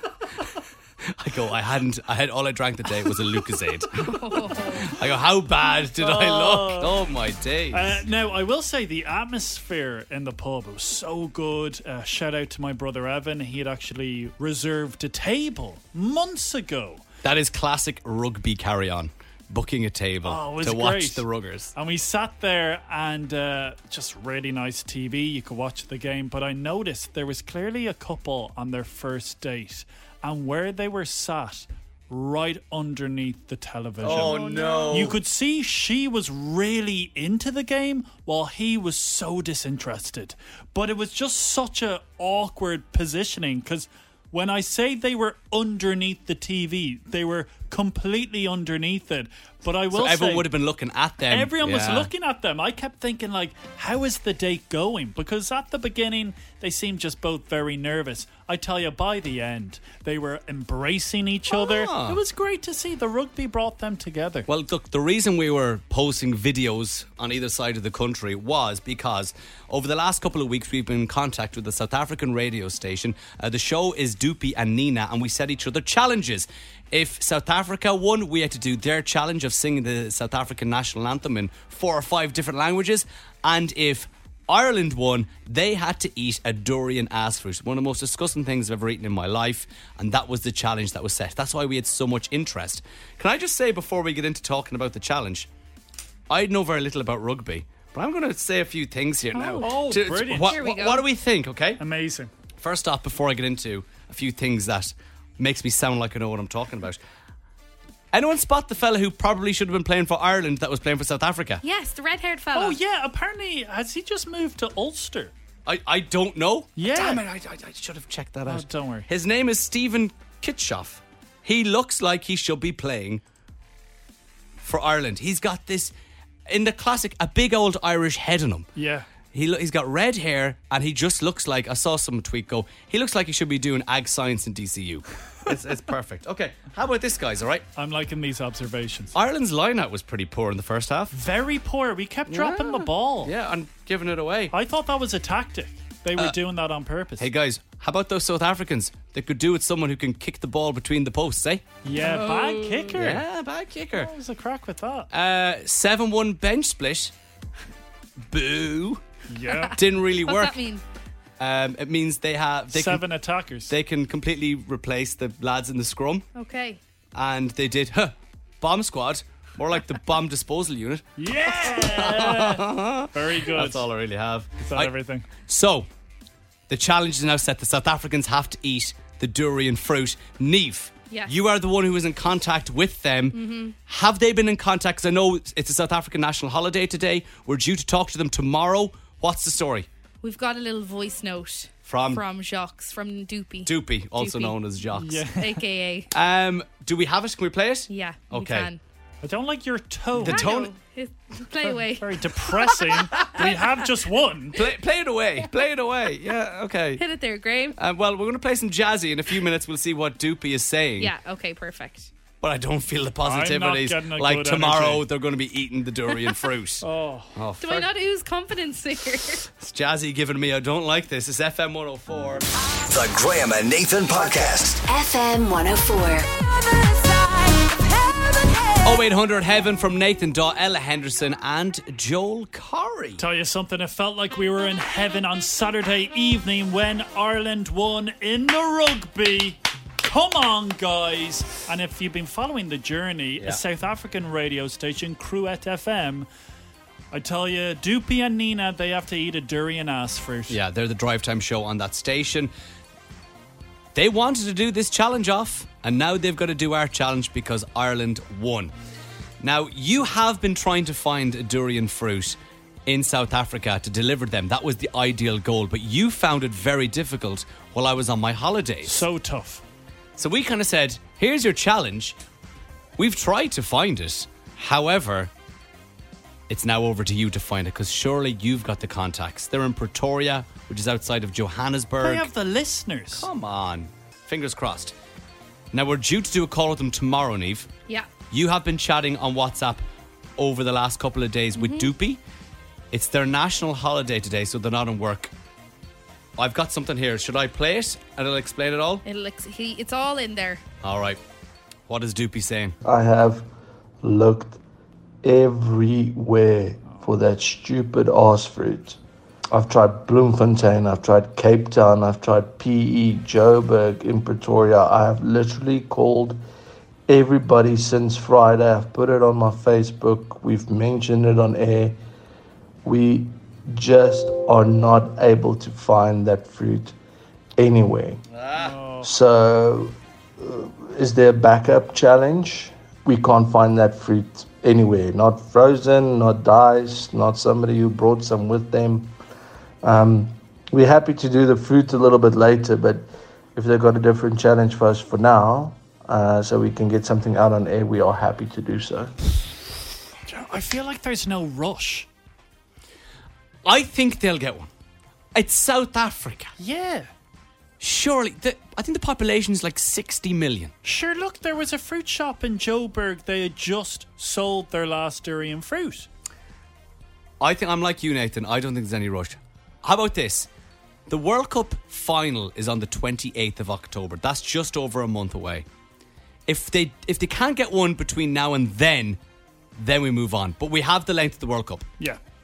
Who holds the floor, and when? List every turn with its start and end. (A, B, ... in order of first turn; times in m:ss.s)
0:01.0-0:08.0 A
0:04.0-0:05.0 B
0:05.9-0:07.0 C
0:07.7-0:17.0 C
0:17.2-0:21.7 A
0:20.2-0:50.5 C
0:34.0-0:35.2 A
0:49.9-0:52.1 A
0:51.3-1:04.5 C
1:01.5-1:02.2 A
1:04.4-1:35.5 A
1:36.3-1:41.8 A
1:39.3-1:41.0 B
1:39.6-1:40.6 C
1:41.8-1:42.3 C
1:42.6-1:47.0 A
1:48.1-1:51.6 A
1:51.6-1:52.8 B
1:52.5-1:55.3 C
1:55.6-2:03.2 A
1:56.8-1:57.2 C
1:58.5-1:59.1 C
2:04.6-2:05.9 A
2:06.5-2:08.7 A
2:08.8-2:09.1 C
2:09.3-2:17.6 A
2:17.8-2:19.1 C
2:19.1-2:21.1 A
2:21.1-2:23.3 C
2:22.3-2:24.5 A
2:24.5-2:27.3 C
2:27.2-2:31.6 A
2:31.8-2:33.2 C
2:32.0-2:32.9 B
2:32.9-2:34.1 A
2:34.0-2:35.1 C
2:35.1-2:37.1 A
2:38.3-2:39.0 A
2:39.3-2:39.8 C
2:39.5-2:40.8 B
2:39.7-2:40.5 A
2:41.4-2:43.0 A
2:42.7-2:43.7 C
2:43.7-2:46.3 A
2:46.3-2:46.8 B
2:47.2-2:55.9 A
2:51.2-2:53.9 C
2:54.6-2:55.3 C
2:56.7-3:09.9 A
3:03.3-3:03.8 B
3:10.2-3:14.6 B
3:11.8-3:12.2 A
3:13.6-3:15.2 A
3:14.9-3:15.6 C
3:15.4-3:16.1 B
3:16.1-3:18.7 A
3:17.9-3:18.8 B
3:19.2-3:20.5 C
3:20.2-3:20.7 A
3:20.2-3:23.7 B
3:21.6-3:24.6 C
3:23.1-3:23.4 A
3:24.5-3:27.0 A
3:27.0-3:27.8 B
3:27.8-3:31.1 A
3:31.0-3:32.1 B
3:32.4-3:37.9 A
3:33.2-3:35.0 C
3:36.8-3:37.3 C
3:37.6-3:39.4 B
3:39.6-3:42.4 A
3:42.9-3:44.8 D
3:44.8-3:49.1 E
3:48.8-3:53.2 A
3:53.2-4:06.3 C
4:07.1-4:10.6 C
4:10.5-4:12.5 A
4:13.9-4:18.7 A
4:19.4-4:29.0 A
4:28.8-4:29.6 C
4:30.2-4:32.2 A
4:33.0-4:35.3 A
4:36.5-4:42.3 A
4:42.0-4:43.3 C
4:43.1-4:44.9 A
4:45.7-4:47.7 A
4:48.3-4:49.8 A
4:50.4-4:52.2 A
4:51.5-4:51.9 B
4:52.9-4:55.3 A
4:56.4-4:59.0 A
4:59.0-5:00.6 B
5:00.8-5:01.2 A
5:01.9-5:02.8 A
5:02.8-5:03.5 F
5:04.0-5:04.6 F
5:05.2-5:09.0 F
5:09.5-5:16.4 F
5:17.1-5:22.0 F
5:22.8-5:27.0 F
5:27.6-5:28.2 F
5:28.3-5:28.7 A
5:28.5-5:29.1 C
5:29.0-5:39.1 F
5:39.8-5:49.1 F
5:50.3-5:52.1 C
5:53.6-5:54.7 A
5:55.3-5:56.5 A
5:56.6-5:57.1 C
5:57.8-6:00.7 A
6:00.8-6:06.1 C
6:07.4-6:10.5 A
6:11.1-6:15.6 A
6:16.5-6:19.2 A
6:19.8-6:21.9 A